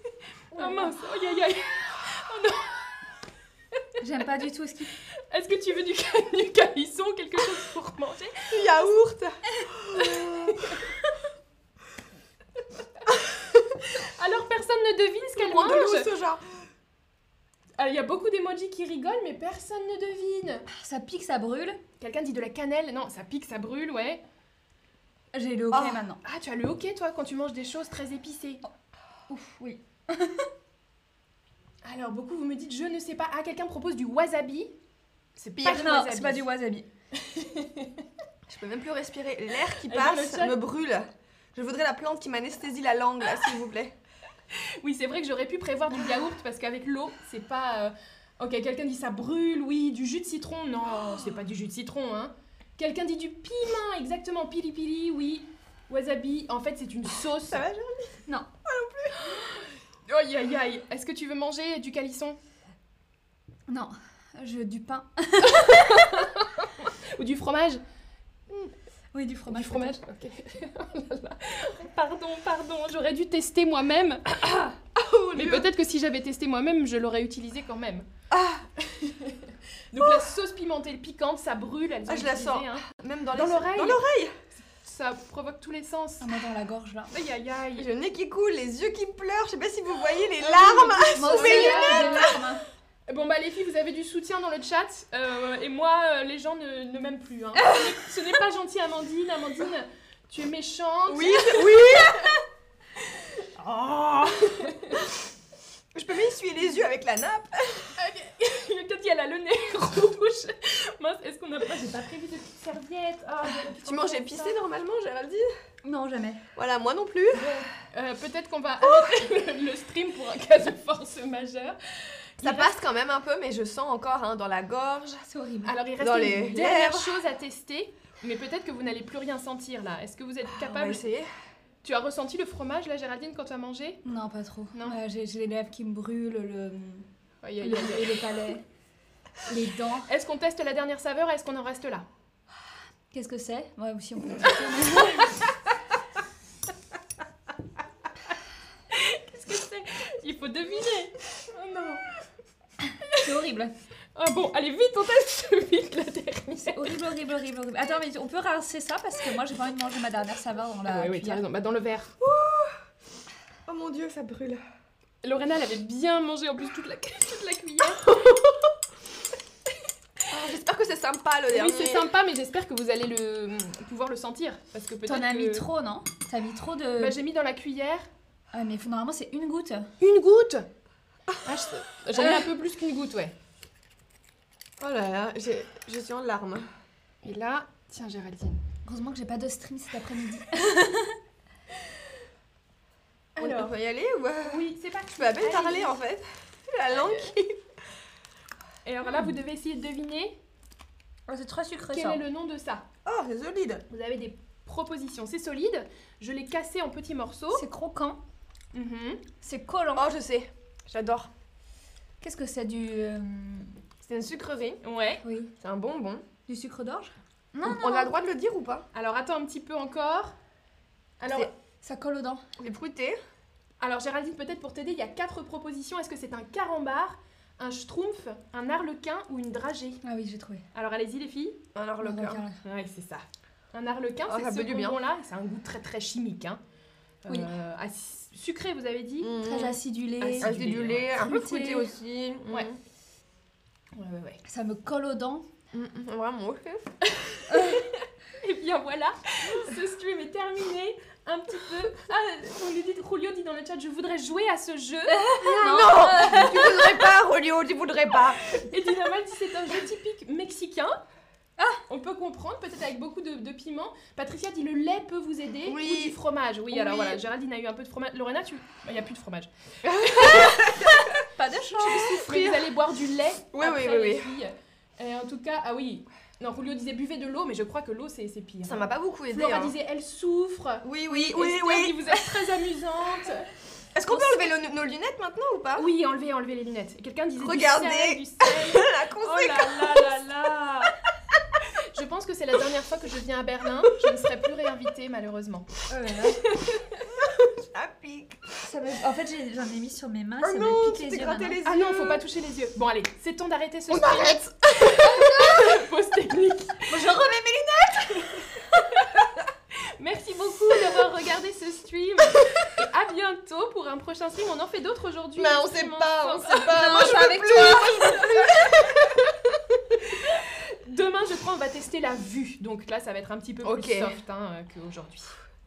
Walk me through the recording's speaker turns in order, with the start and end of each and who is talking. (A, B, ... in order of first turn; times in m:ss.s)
0:00.5-0:01.0 A
0:00.5-0:02.9 B
0:04.0-0:04.9 A
0:05.3-0:08.5 B
0:08.5-0:10.8 C
0:10.0-0:11.1 B
0:13.8-0:16.1 B
0:15.4-0:16.6 C
0:17.8-0:20.7 B
0:20.7-0:21.8 A
0:22.0-0:24.2 B
0:25.3-0:26.2 A
0:25.7-0:26.1 C
0:26.2-0:28.6 B
0:29.3-0:30.5 A
0:31.8-0:34.8 B
0:35.4-0:36.5 B
0:35.6-0:36.9 A
0:37.2-0:38.0 B
0:38.5-0:44.0 C
0:39.8-0:40.6 B
0:44.8-0:57.6 B
0:57.4-0:59.3 C
1:00.1-1:02.4 B
1:03.7-1:06.0 A
1:05.4-1:07.8 B
1:09.1-1:10.0 A
1:09.5-1:14.4 B
1:14.4-1:15.7 C
1:15.3-1:18.1 B
1:18.3-1:18.8 C
1:18.9-1:24.0 B
1:20.0-1:20.3 C
1:22.1-1:24.4 C
1:24.6-1:26.3 B
1:26.2-1:27.1 A
1:27.1-1:27.9 B
1:27.8-1:32.5 C
1:30.4-1:32.4 B
1:31.1-1:32.6 A
1:33.1-1:42.3 B
1:41.1-1:42.4 C
1:43.6-1:45.0 C
1:44.4-1:45.0 B
1:45.9-1:47.9 C
1:48.0-1:54.6 B
1:53.6-1:55.5 C
1:55.8-1:56.4 A
1:56.6-1:57.6 C
1:57.9-2:02.8 B
2:02.4-2:05.2 C
2:05.2-2:05.8 A
2:05.6-2:11.1 B
2:06.0-2:07.2 C
2:10.4-2:11.3 C
2:11.8-2:14.0 B
2:14.0-2:17.1 A
2:14.8-2:15.0 B
2:17.4-2:18.3 B
2:17.6-2:18.6 A
2:19.5-2:20.1 A
2:20.0-2:22.1 B
2:23.1-2:25.5 A
2:28.9-2:32.0 B
2:33.1-2:33.7 A
2:34.2-2:37.0 B
2:36.6-2:41.4 A
2:40.8-2:42.1 B
2:42.2-2:42.8 C
2:43.7-2:44.6 C
2:45.2-2:48.2 B
2:48.1-2:48.5 C
2:50.3-2:52.1 C
2:51.5-2:55.7 B
2:55.0-2:57.2 A
2:57.0-2:58.1 B
2:58.5-2:59.9 A
3:00.0-3:00.7 B
3:01.4-3:03.3 B
3:02.1-3:02.5 A
3:04.8-3:06.7 C
3:07.2-3:08.6 B
3:08.8-3:11.2 A
3:13.4-3:13.7 B
3:13.4-3:17.6 C
3:14.4-3:16.0 B
3:18.8-3:20.4 B
3:21.3-3:22.2 A
3:21.9-3:22.9 B
3:23.1-3:23.8 C
3:23.9-3:27.6 B
3:27.5-3:28.2 A
3:28.7-3:29.2 B
3:29.4-3:30.1 A
3:30.0-3:31.3 C
3:32.2-3:33.8 A
3:34.0-3:34.8 C
3:34.8-3:35.2 B
3:35.2-3:35.5 A
3:35.6-3:36.2 C
3:36.5-3:38.1 A
3:37.6-3:38.9 C
3:38.9-3:40.4 B
3:41.2-3:41.5 B
3:41.8-3:42.4 A
3:42.6-3:43.2 C
3:43.8-3:50.0 B
3:50.0-3:50.6 A
3:50.7-3:51.6 B
3:51.8-3:52.4 C
3:52.0-3:52.6 A
3:52.6-3:56.6 B
3:54.3-3:55.0 C
3:57.2-3:59.4 B
3:59.2-3:59.8 C
3:59.4-4:00.5 A
4:00.2-4:01.1 B
4:00.4-4:02.8 C
4:01.1-4:01.9 A
4:02.5-4:02.7 B
4:04.0-4:04.4 B
4:04.4-4:05.5 A
4:05.7-4:07.0 C
4:07.1-4:15.2 B
4:07.5-4:07.8 A
4:15.1-4:17.2 A
4:15.4-4:18.5 C
4:18.7-4:21.0 B
4:21.9-4:29.5 B
4:25.7-4:27.2 C
4:29.8-4:31.2 C
4:30.1-4:30.7 B
4:31.2-4:32.2 A
4:31.8-4:32.8 C
4:31.8-4:43.5 B
4:33.5-4:34.4 C
4:38.6-4:39.8 C
4:40.8-4:42.6 C
4:44.0-4:45.9 C
4:44.1-4:44.4 A
4:45.8-4:51.0 B
4:47.4-4:50.2 C
4:51.7-4:55.8 B
4:55.9-4:56.4 A
4:56.5-4:57.0 B
4:57.0-4:58.5 C
4:58.6-5:01.6 A
5:00.4-5:02.2 C
5:01.6-5:07.0 B
5:03.9-5:05.8 C
5:06.9-5:08.4 A
5:08.7-5:09.2 B
5:10.0-5:18.8 B
5:15.4-5:19.3 C
5:16.6-5:18.5 A
5:20.4-5:25.3 B
5:23.6-5:24.1 C